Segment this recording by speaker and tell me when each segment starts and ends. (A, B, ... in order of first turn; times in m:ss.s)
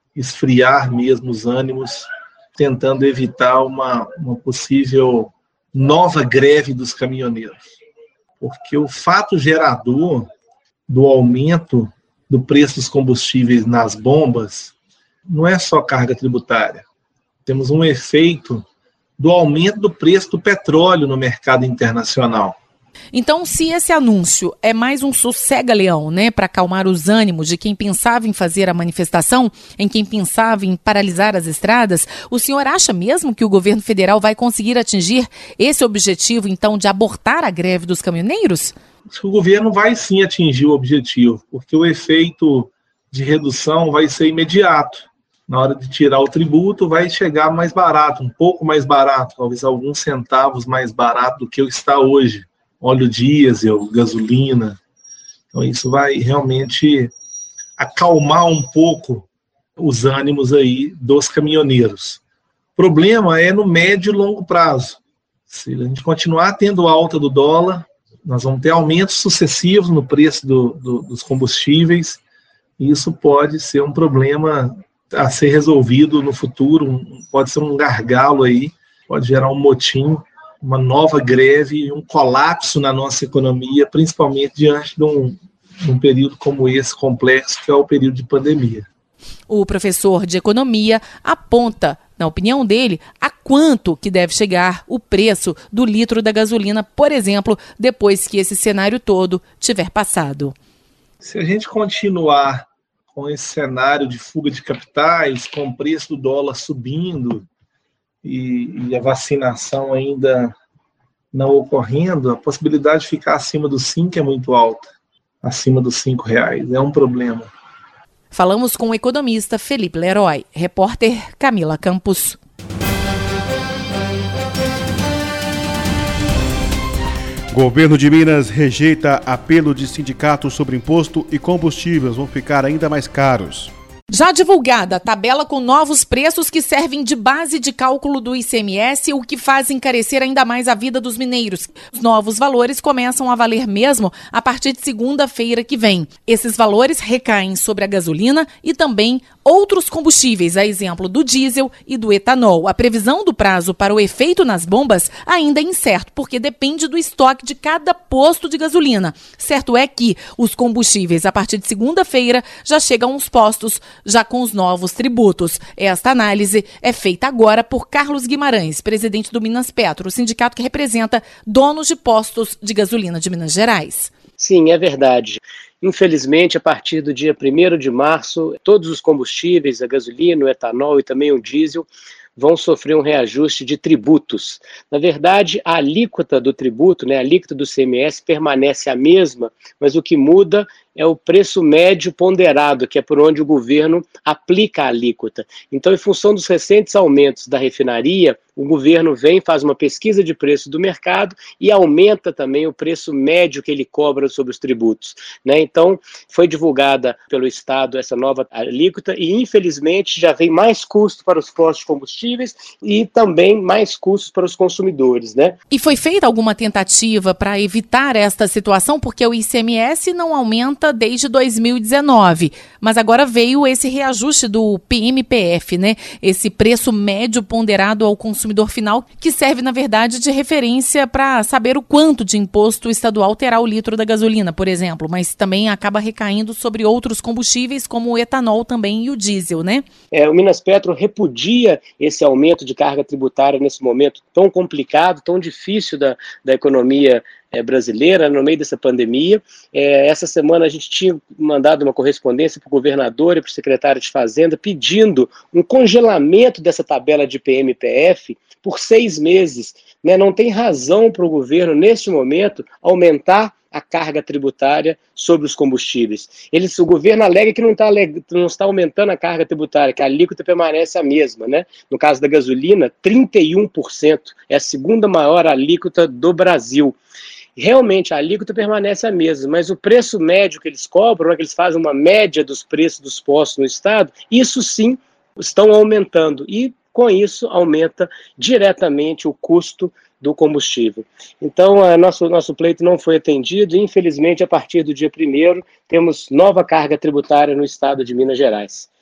0:00.2-0:07.7 A
0:08.4-0:10.3 A
0:10.9-0:14.7 A
0:15.3-0:16.8 A
0:17.4-0:18.6 A
0:19.2-0:22.6 A
0:23.1-0:38.7 B
0:39.1-0:54.8 A
0:55.5-0:57.1 A
0:57.8-0:59.2 A
0:59.8-1:02.2 A
1:02.8-1:05.0 A
1:05.5-1:12.2 A
1:12.8-1:28.9 A
1:29.5-1:40.5 B
1:41.2-1:47.4 A
1:48.2-1:50.5 A
1:51.3-1:54.9 A
1:55.4-1:57.5 A
1:58.3-2:02.4 B
2:07.5-2:13.7 C
2:14.1-2:54.1 B
2:54.4-3:35.6 D
3:35.7-3:59.8 B
4:00.1-4:37.0 D
4:37.6-4:58.9 D